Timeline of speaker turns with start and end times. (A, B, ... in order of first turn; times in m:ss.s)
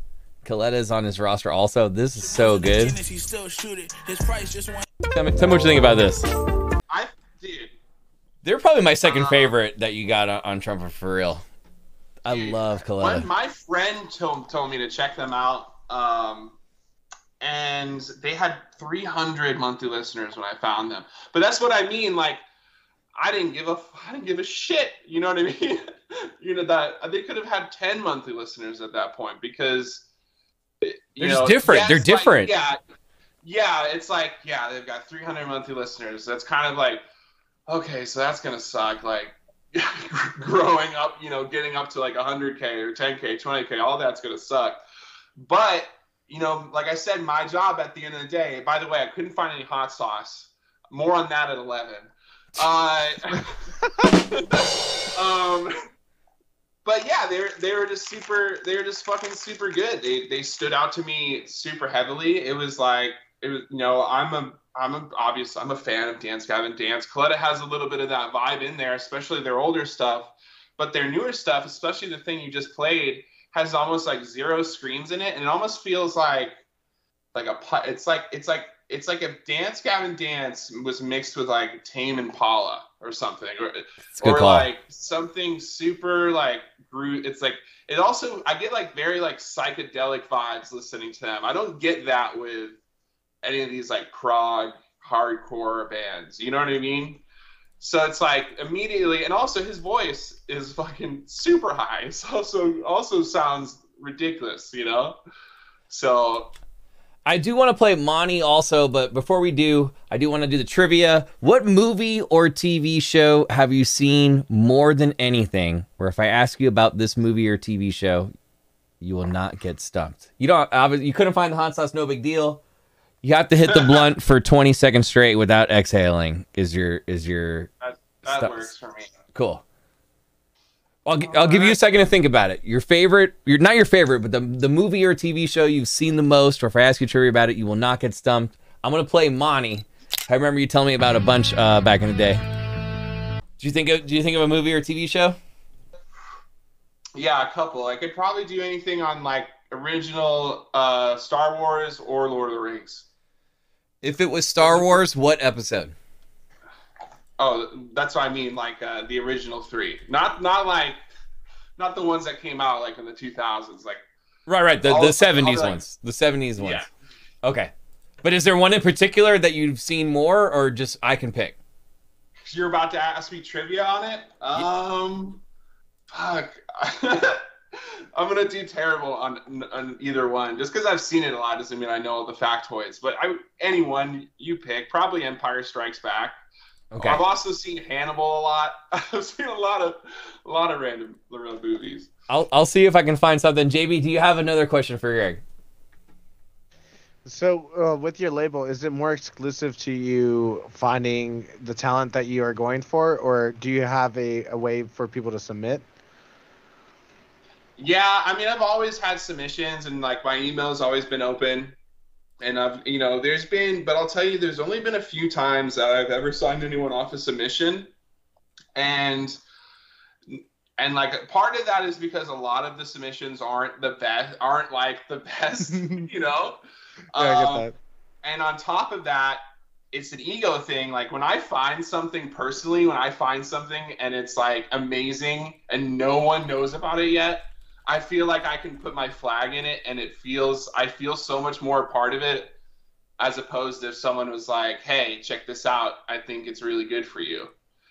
0:00.4-0:03.0 A
0:02.4-0:04.8 B
0:05.1-0:06.3 A
0:06.9-0:07.7 C
0:08.4-0:11.4 A
0:09.0-0:09.5 C
0:12.2-0:13.3 A
0:12.3-0:16.6 C
0:17.4-0:22.4 C
0:23.2-0:25.8 C
0:26.4-0:30.0 C
0:30.8-0:32.8 C
0:31.2-0:32.5 A
0:33.4-0:37.0 C
0:37.7-0:44.8 C
0:45.4-0:55.7 C
0:56.8-1:16.6 C
1:17.3-1:32.8 C
1:24.2-1:24.7 A
1:33.4-1:37.2 C
1:37.8-1:45.2 C
1:45.9-1:46.5 C
1:47.2-1:58.3 A
1:59.0-2:02.6 A
2:03.2-2:07.7 A
2:03.7-2:04.0 C
2:07.8-2:09.1 C
2:08.2-2:08.7 A
2:09.3-2:09.6 A
2:11.0-2:22.4 A
2:11.2-2:11.8 C
2:23.6-2:25.4 A
2:27.2-2:33.1 C
2:34.0-2:35.9 A
2:34.6-2:35.0 C
2:37.4-2:41.0 C
2:41.8-2:44.0 C
2:44.5-2:46.8 A
2:44.8-2:45.8 C
2:46.6-2:46.8 C
2:47.4-2:47.7 A
2:48.2-2:51.6 A
2:52.5-2:55.4 C
2:56.1-2:57.4 C
2:58.1-3:06.4 C
3:06.9-3:07.2 A
3:07.0-3:12.1 C
3:12.3-3:15.4 A
3:17.2-3:25.9 D
3:27.8-3:31.8 C
3:32.4-3:37.9 C
3:38.8-3:39.4 C
3:40.3-3:46.6 C
3:45.7-3:46.0 D
3:47.1-3:47.6 C
3:47.1-3:47.8 D
3:48.2-3:49.4 C
3:49.9-4:02.6 C
4:03.2-4:07.5 C